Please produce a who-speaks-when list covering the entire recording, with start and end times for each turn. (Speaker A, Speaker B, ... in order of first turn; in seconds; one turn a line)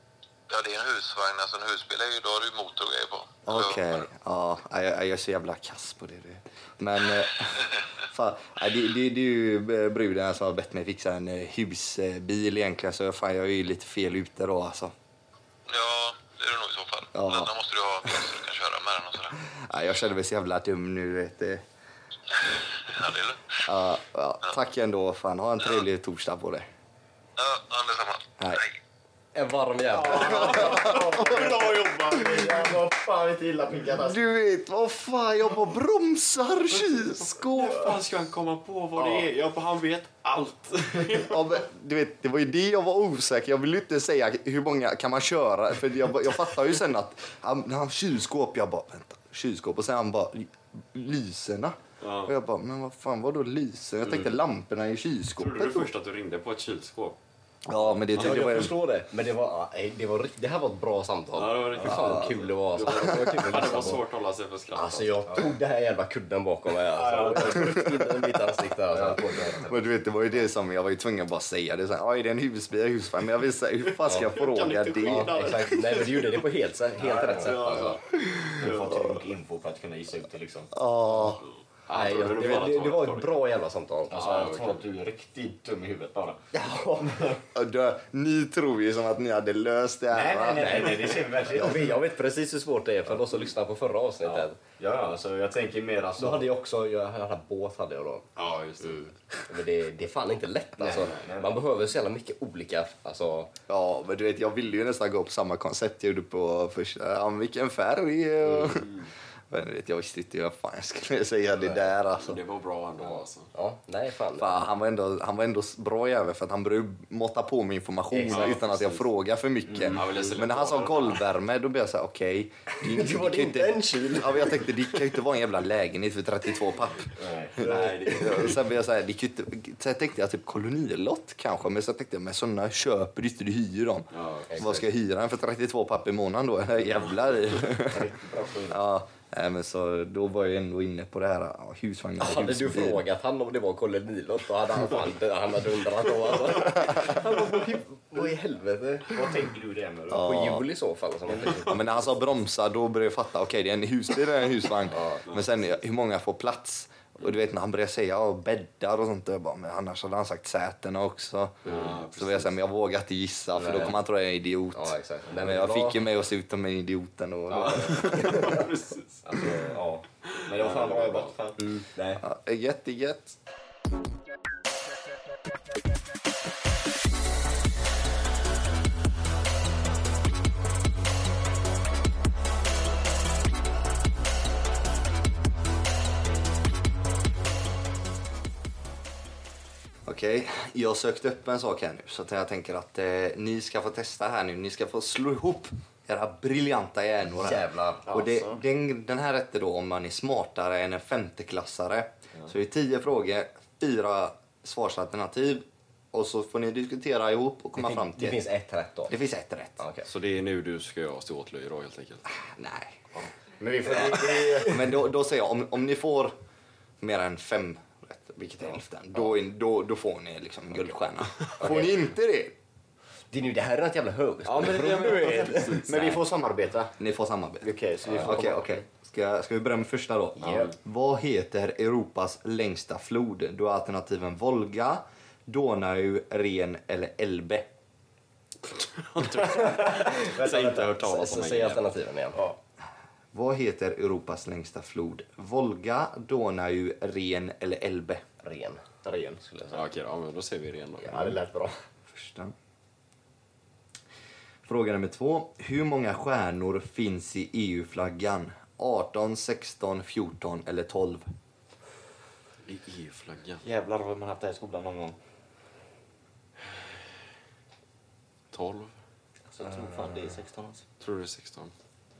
Speaker A: 0.5-4.0
Speaker B: 3.5-14.9
Speaker A: 15.7-19.4
Speaker B: 17.1-17.5
Speaker B: 19.5-21.6
Speaker A: 22.7-23.5
Speaker B: 23.6-26.7
Speaker A: 27.4-28.8
Speaker B: 28.4-28.7
Speaker C: 29.3-31.0
Speaker D: 30.0-34.2
Speaker E: 30.0-31.9
Speaker B: 34.0-37.9
Speaker E: 36.7-41.6
Speaker D: 39.0-39.3
Speaker B: 41.2-55.9
Speaker E: 52.0-52.3
Speaker E: 55.4-57.2
Speaker B: 57.7-58.7
Speaker E: 57.8-58.4
Speaker C: 58.1-64.0
Speaker E: 61.3-65.4
Speaker B: 61.9-62.3
Speaker C: 64.7-69.6
Speaker E: 67.1-67.4
Speaker D: 67.1-67.5
Speaker B: 67.8-68.2
Speaker D: 68.9-69.2
Speaker B: 69.7-75.5
Speaker C: 74.1-74.3
Speaker D: 74.4-76.0
Speaker C: 75.0-78.0
Speaker D: 77.0-80.7
Speaker B: 80.7-81.4
Speaker E: 81.9-83.4
Speaker C: 81.9-84.3
Speaker D: 84.1-87.4
Speaker E: 84.1-84.8
Speaker C: 86.5-87.1
Speaker B: 87.5-91.1
Speaker D: 90.1-91.9
Speaker C: 90.6-94.6
Speaker D: 94.2-96.5
Speaker C: 96.2-98.3
Speaker E: 98.4-99.1
Speaker C: 98.8-103.5
Speaker D: 100.8-101.6
Speaker E: 101.0-101.3
Speaker B: 103.7-109.0
Speaker B: 109.5-112.4
Speaker C: 111.6-111.9
Speaker E: 112.2-113.5
Speaker C: 113.5-114.7
Speaker B: 114.4-138.0
Speaker C: 118.1-119.0
Speaker E: 118.3-118.7
Speaker E: 119.9-121.3
Speaker C: 122.8-124.9
Speaker E: 127.6-128.6
Speaker E: 134.1-134.8
Speaker D: 137.8-138.8
Speaker B: 138.7-143.0
Speaker C: 142.2-149.3
Speaker D: 149.1-150.2
Speaker B: 150.1-150.7
Speaker C: 150.1-151.7
Speaker D: 151.3-151.6
Speaker B: 151.6-168.6
Speaker C: 154.9-155.2
Speaker E: 161.7-162.6
Speaker C: 163.6-164.0
Speaker C: 164.7-166.1
Speaker C: 167.7-168.7
Speaker E: 167.8-169.5
Speaker C: 169.3-170.0
Speaker E: 170.3-171.3
Speaker D: 170.5-171.7
Speaker C: 171.6-172.2
Speaker B: 172.2-173.4
Speaker B: 190.1-208.4
Speaker C: 197.4-198.1
Speaker D: 198.1-198.6
Speaker C: 207.8-209.1
Speaker B: 209.1-209.8
Speaker C: 209.8-210.1
Speaker E: 210.1-212.2
Speaker B: 212.4-213.0
Speaker D: 213.6-214.8
Speaker B: 214.0-216.3
Speaker B: 217.0-222.5
Speaker C: 221.6-221.9
Speaker C: 223.3-226.2
Speaker E: 224.4-226.2
Speaker D: 225.1-226.9
Speaker B: 227.0-237.7
Speaker D: 227.6-228.8
Speaker C: 230.4-230.7
Speaker E: 238.8-241.9
Speaker C: 239.4-242.4
Speaker B: 243.3-248.2
Speaker C: 248.4-248.8
Speaker D: 249.0-249.8
Speaker E: 249.7-251.3
Speaker D: 251.0-251.8
Speaker B: 252.1-252.5
Speaker B: 254.7-261.3
Speaker E: 262.6-263.6
Speaker D: 263.6-265.2
Speaker E: 268.5-268.9
Speaker D: 269.5-270.8
Speaker E: 271.0-271.7